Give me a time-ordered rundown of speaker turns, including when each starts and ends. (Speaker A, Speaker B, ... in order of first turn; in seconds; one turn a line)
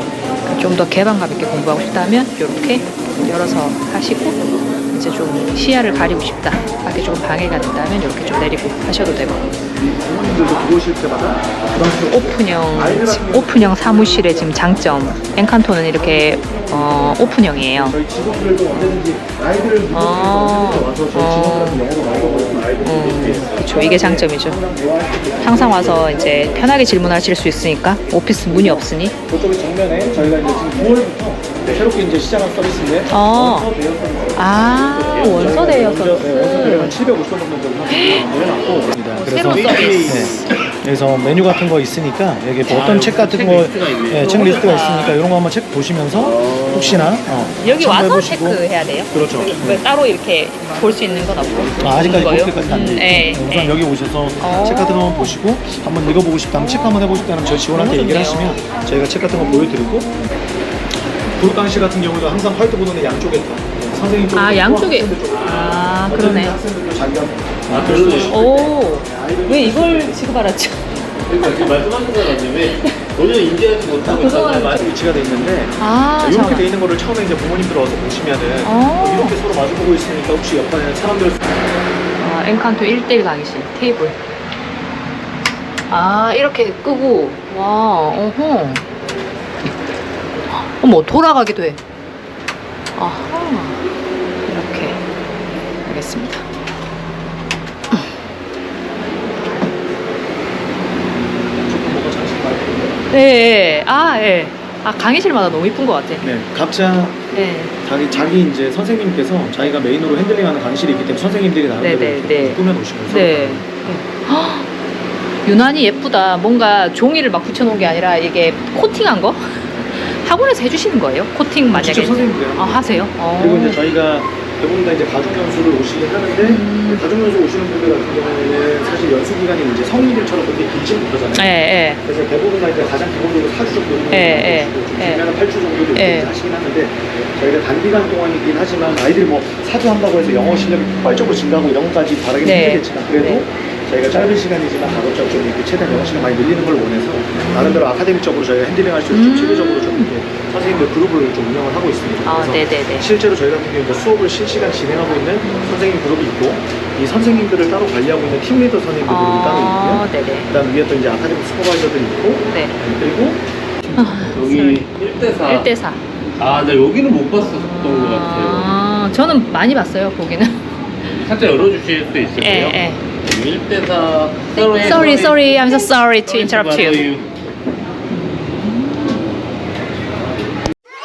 Speaker A: 0.5-9.6
Speaker B: 9.8-27.1
Speaker A: 12.0-18.0
Speaker A: 19.9-21.9
Speaker A: 22.8-24.6
Speaker A: 25.4-29.1
Speaker B: 28.5-49.8
Speaker A: 30.4-30.9
Speaker A: 33.1-33.7
Speaker A: 34.3-37.0
Speaker C: 35.0-35.6
Speaker A: 37.9-38.3
Speaker A: 39.1-40.4
Speaker C: 39.4-40.5
Speaker C: 42.6-45.1
Speaker A: 44.6-45.2
Speaker C: 46.1-47.2
Speaker A: 47.6-53.7
Speaker C: 49.3-49.7
Speaker B: 51.8-60.1
Speaker A: 54.4-55.4
Speaker A: 56.5-58.6
Speaker A: 59.4-59.7
Speaker B: 61.3-70.2
Speaker A: 64.3-66.6
Speaker C: 65.3-65.8
Speaker C: 67.7-68.4
Speaker A: 67.8-73.0
Speaker C: 71.3-74.9
Speaker B: 74.0-81.4
Speaker A: 74.1-74.8
Speaker A: 75.8-76.7
Speaker A: 78.6-79.4
Speaker A: 82.2-84.2
Speaker A: 85.9-88.8
Speaker A: 90.5-91.8
Speaker A: 93.0-93.8
Speaker A: 94.4-95.0
Speaker A: 95.8-96.4
Speaker A: 97.9-98.2
Speaker B: 101.7-102.9
Speaker A: 103.1-106.3
Speaker B: 106.2-107.2
Speaker A: 107.3-107.7
Speaker B: 107.8-113.8
Speaker A: 111.8-114.7
Speaker A: 115.4-123.8
Speaker B: 121.7-164.3
Speaker A: 126.4-127.0
Speaker A: 131.3-132.0
Speaker A: 134.1-135.2
Speaker A: 135.9-136.3
Speaker A: 142.4-143.4
Speaker A: 147.3-147.9
Speaker A: 149.1-150.1
Speaker A: 152.2-153.1
Speaker A: 155.4-155.9
Speaker A: 159.0-160.5
Speaker A: 162.4-162.7
Speaker A: 164.0-164.9
Speaker C: 164.3-165.7
Speaker A: 165.4-166.0
Speaker C: 166.4-168.7
Speaker A: 167.4-171.3
Speaker C: 171.2-177.3
Speaker A: 172.4-173.0
Speaker A: 174.5-177.1
Speaker A: 178.1-179.3